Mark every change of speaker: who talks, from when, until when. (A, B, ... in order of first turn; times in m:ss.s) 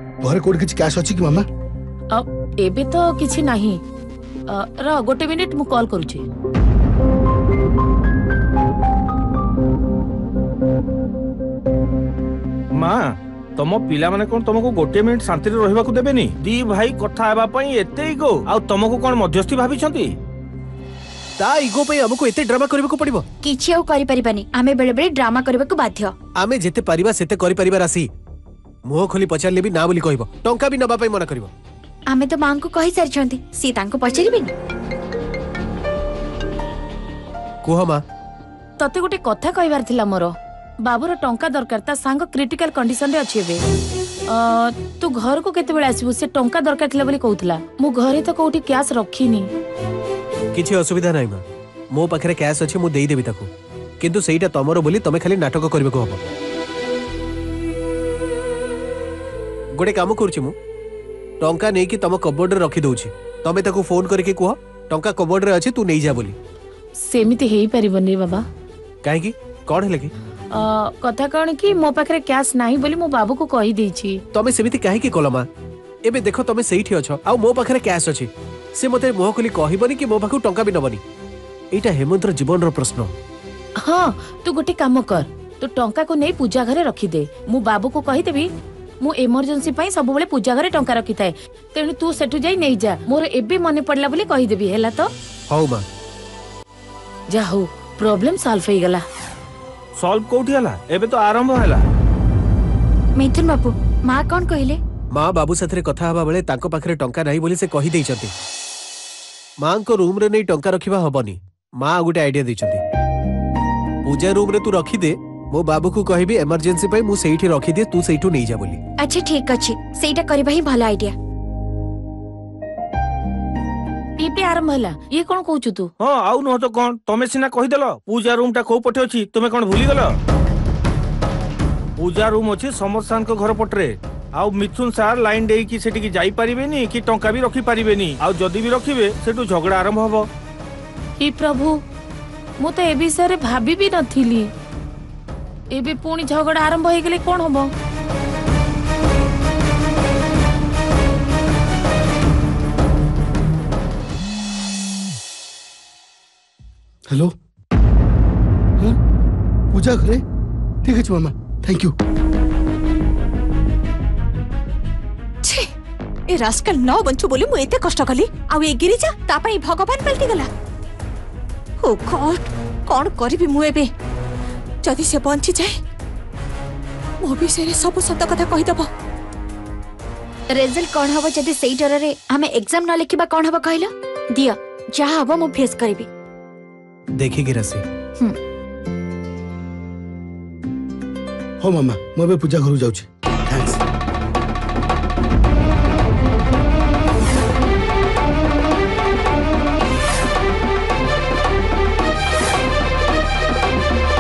0:00.2-0:01.4 A
0:02.1-0:03.8 B
0:04.5-0:06.2 B
0:12.8-0:20.1 C
0:21.4-0:23.2 D
0:23.4-0:26.1 E
0:26.4-0:28.1 D
0:28.9-0:31.5 D
0:32.1-0:34.5 E
0:37.6-0:38.0 D
0:38.8-0:43.6 B
0:44.3-0:49.5 B
0:50.5-0:53.5 D
0:54.0-0:56.3 D
0:59.8-1:00.6 D
1:01.4-1:06.4 D
1:07.0-1:08.4 B
1:09.0-1:10.1 D
1:10.5-1:14.2 B
1:14.3-1:15.5 D
1:16.1-1:21.0 D
1:21.7-1:23.1 D
1:23.8-1:28.5 B
1:29.0-1:35.1 B
1:35.5-1:35.8 D
1:37.3-1:39.0 B
1:40.0-1:41.8 C
1:43.2-1:44.8 E
1:45.1-1:48.3 D
1:49.6-1:52.8 D
1:54.0-1:58.8 D
1:59.0-2:01.1 E
2:04.2-2:05.9 B
2:06.0-2:10.2 C
2:12.0-2:20.3 C
2:21.2-2:21.8 B
2:22.6-2:24.5 B
2:25.7-2:27.7 B
2:39.7-2:40.2 A
2:40.8-2:41.9 A
2:45.4-2:45.7 F
2:46.3-2:50.5 F
2:51.8-2:53.9 F
2:54.8-2:55.8 F
2:57.2-2:58.9 F
3:00.5-3:06.1 E
3:07.2-3:07.8 D
3:11.6-3:13.8 A